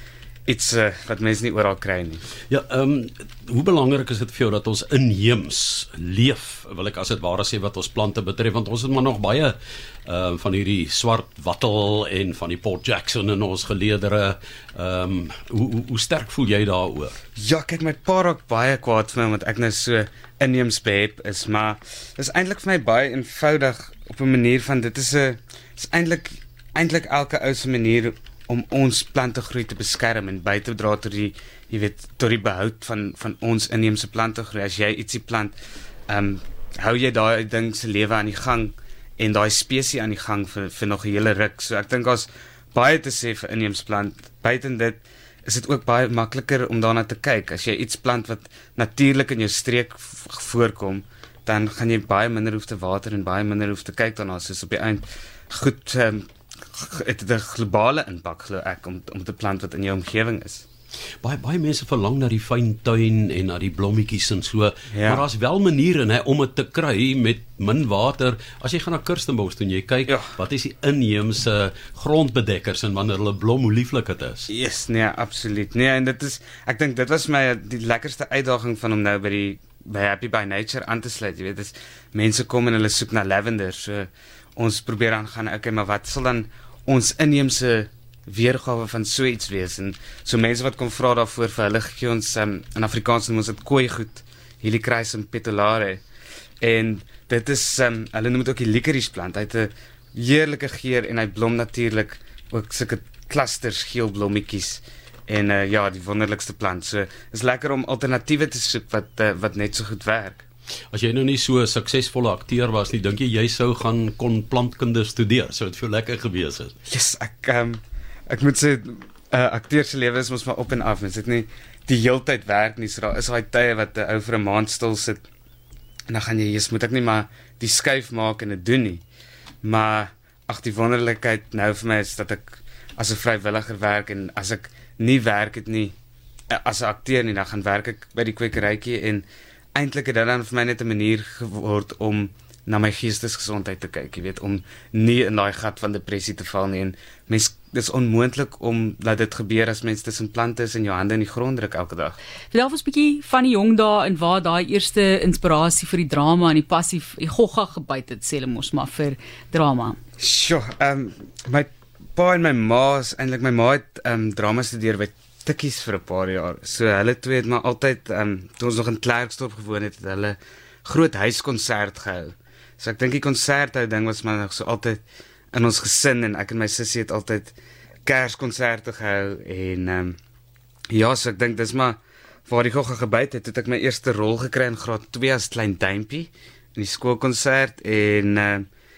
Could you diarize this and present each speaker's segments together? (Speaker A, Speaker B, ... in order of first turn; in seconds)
Speaker A: 0.5-2.2, 17.4-35.5, 36.1-60.6, 64.9-65.2, 70.1-70.3, 74.5-96.0, 96.6-110.4, 116.8-125.2, 126.1-129.0, 129.6-135.9, 136.5-152.2, 160.2-177.5, 178.1-180.2, 180.9-188.7
Speaker B: 2.5-17.1, 61.2-74.5, 110.9-116.7
Speaker C: 152.5-160.0